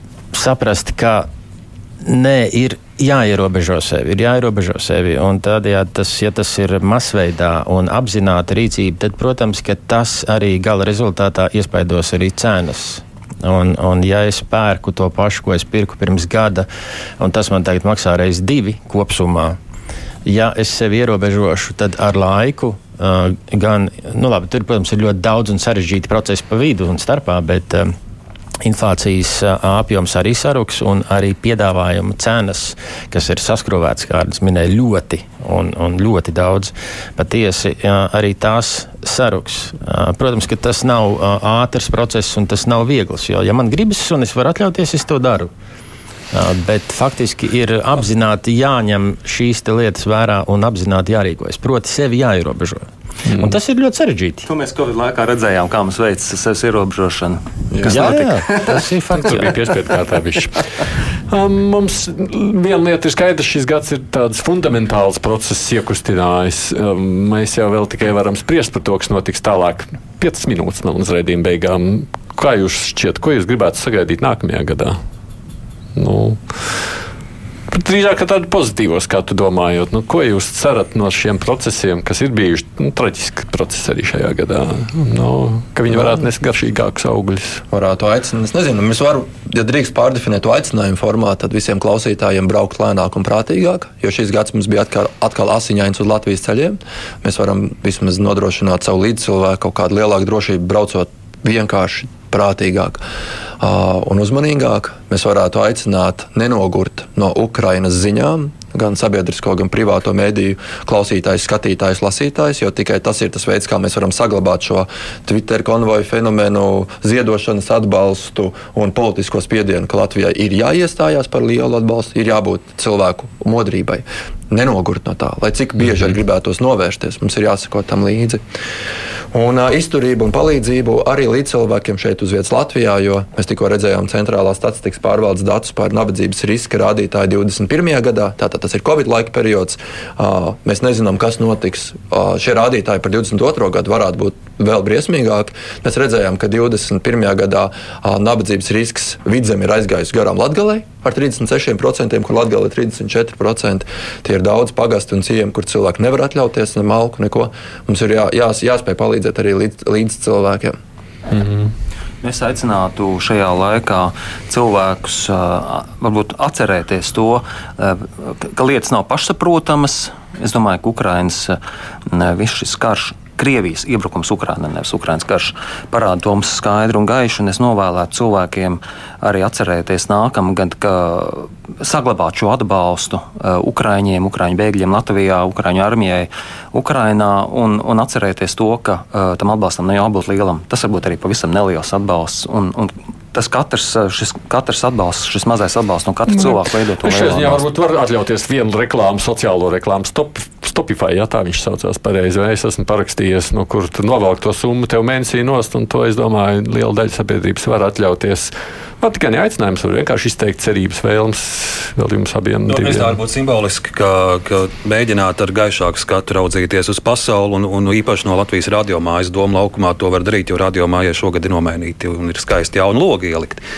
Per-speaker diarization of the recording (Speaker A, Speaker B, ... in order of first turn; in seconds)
Speaker A: 0.3-1.3, 2.0-16.7, 17.2-19.6, 20.2-27.9, 28.6-45.5, 46.3-54.5, 57.8-59.5
Speaker B: 53.2-53.5, 59.3-75.0, 75.9-76.8, 77.7-87.6, 161.3-161.7, 196.3-213.1
Speaker C: 54.4-59.7, 162.2-197.7
Speaker D: 57.7-58.1, 87.7-103.0, 103.6-128.4, 129.3-160.8
Speaker E: 212.7-223.6